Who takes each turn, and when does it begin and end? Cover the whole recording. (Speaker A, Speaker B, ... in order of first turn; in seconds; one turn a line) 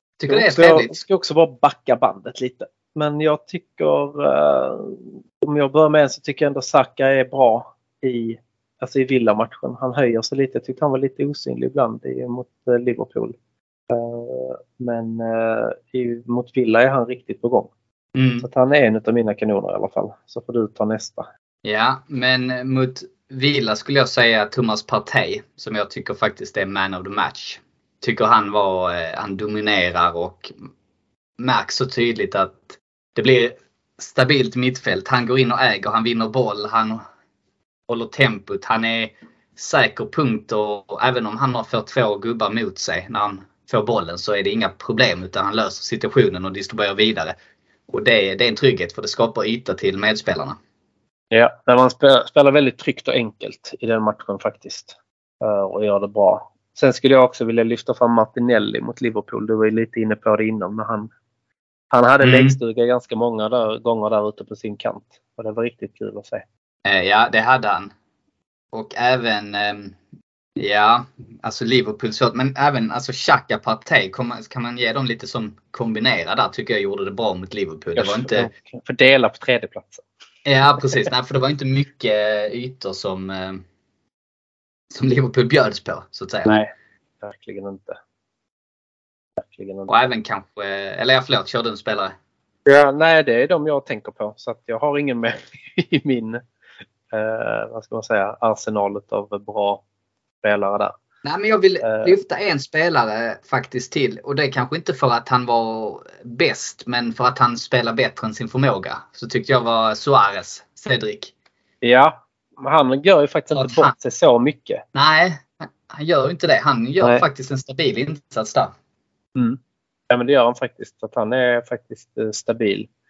Speaker A: 0.2-1.0
Speaker B: 0.3-13.3
Speaker B: 13.9-17.7
Speaker A: 18.1-18.5
Speaker B: 18.4-21.2
Speaker A: 21.6-30.5
Speaker A: 31.4-37.0
Speaker A: 37.9-47.4
Speaker A: 47.9-50.6
Speaker B: 51.3-61.1
Speaker B: 61.9-66.4
Speaker A: 62.2-62.5
Speaker A: 66.8-67.9
Speaker A: 68.7-70.0
Speaker A: 70.6-78.5
Speaker B: 78.0-80.0
Speaker A: 80.5-83.6
Speaker A: 84.9-86.6
Speaker B: 87.2-88.0
Speaker B: 89.4-90.0
Speaker A: 89.9-92.2
Speaker B: 92.7-96.4
Speaker B: 97.1-99.8
Speaker B: 100.4-101.0
Speaker A: 101.2-111.3
Speaker B: 101.8-102.2
Speaker B: 111.8-114.8
Speaker A: 113.5-113.9
Speaker A: 114.9-118.7
Speaker B: 120.1-122.9